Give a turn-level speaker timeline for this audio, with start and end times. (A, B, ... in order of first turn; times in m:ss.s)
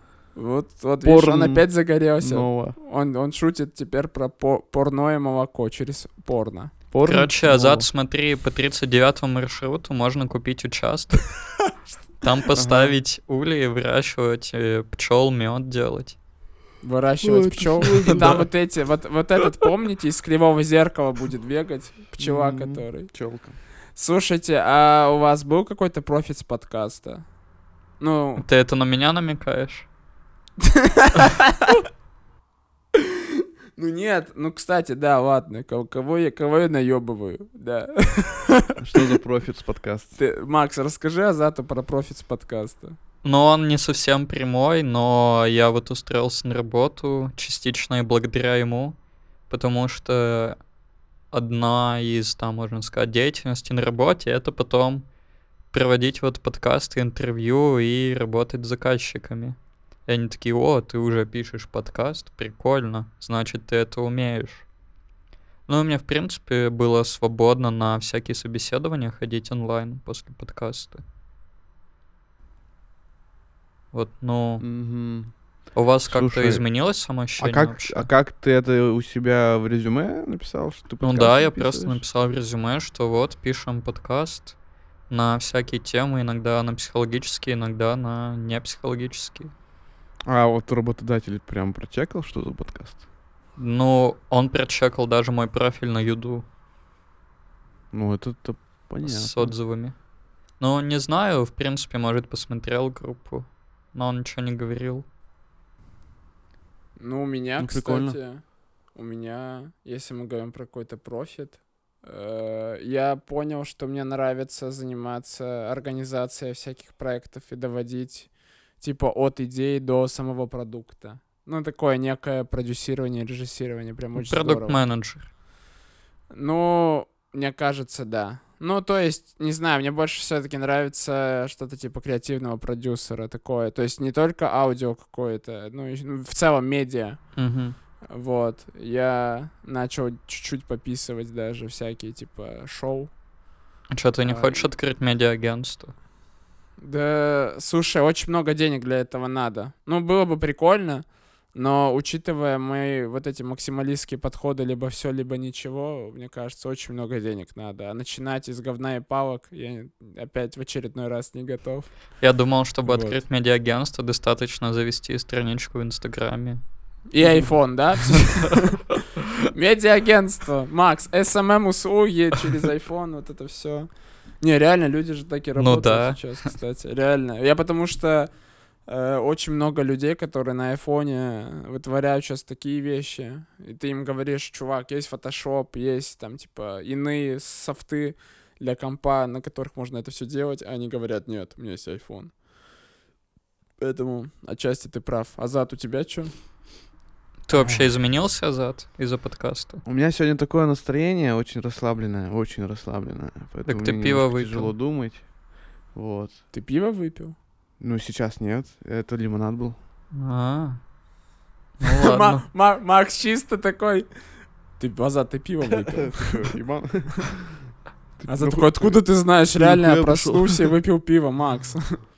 0:00.4-0:06.7 A
0:01.0-0:01.7 B
0:02.2-0:02.8 B
0:06.9-0:07.9 B
0:07.0-0:11.4 C
0:12.2-0:16.2 C
0:12.6-0:13.0 B
0:16.8-0:23.1 A
0:17.2-0:18.5 B
0:17.9-0:18.4 C
0:22.2-0:23.6 B
0:24.0-0:27.2 A
0:28.0-0:28.4 A
0:28.4-0:29.9 C
0:30.6-0:31.8 A
0:33.0-0:38.8 A
0:38.8-0:40.2 B
0:40.2-0:43.0 A
0:43.2-0:49.0 C
0:49.5-0:50.6 C
0:51.3-0:55.1 C
0:55.7-1:04.6 C
1:05.7-1:11.0 C
1:13.9-1:14.6 C
1:14.6-1:15.3 B
1:15.8-1:18.1 C
1:16.1-1:16.6 B
1:17.4-1:22.0 B
1:21.0-1:24.6 C
1:25.1-1:29.5 C
1:30.3-1:33.0 B
1:33.6-1:36.4 C
1:37.9-1:39.5 B
1:39.0-1:40.0 C
1:40.6-1:45.0 C
1:47.0-1:48.4 A
1:47.6-1:48.2 B
1:48.9-2:04.8 A
2:04.2-2:05.3 C
2:06.3-2:17.2 A
2:17.4-2:17.8 C
2:18.1-2:23.1 A
2:23.9-2:25.9 C
2:24.2-2:24.7 A
2:26.8-2:41.9 A
2:42.2-2:46.6 C
2:42.8-2:43.2 A
2:47.1-2:48.8 A
2:49.5-2:53.9 A
2:54.4-2:58.3 A
2:55.6-2:56.2 C
2:58.9-3:12.3 A
3:13.8-3:16.3 A
3:17.5-3:19.8 C
3:19.9-3:25.2 B
3:23.7-3:24.7 C
3:26.0-3:26.4 B
3:26.5-3:27.4 A
3:27.8-3:29.8 B
3:30.1-3:30.8 C
3:31.8-3:32.4 C
3:31.8-3:34.1 A
3:34.8-3:36.4 A
3:35.8-3:37.6 B
3:38.2-3:39.0 B
3:38.3-3:42.0 A
3:39.6-3:40.7 B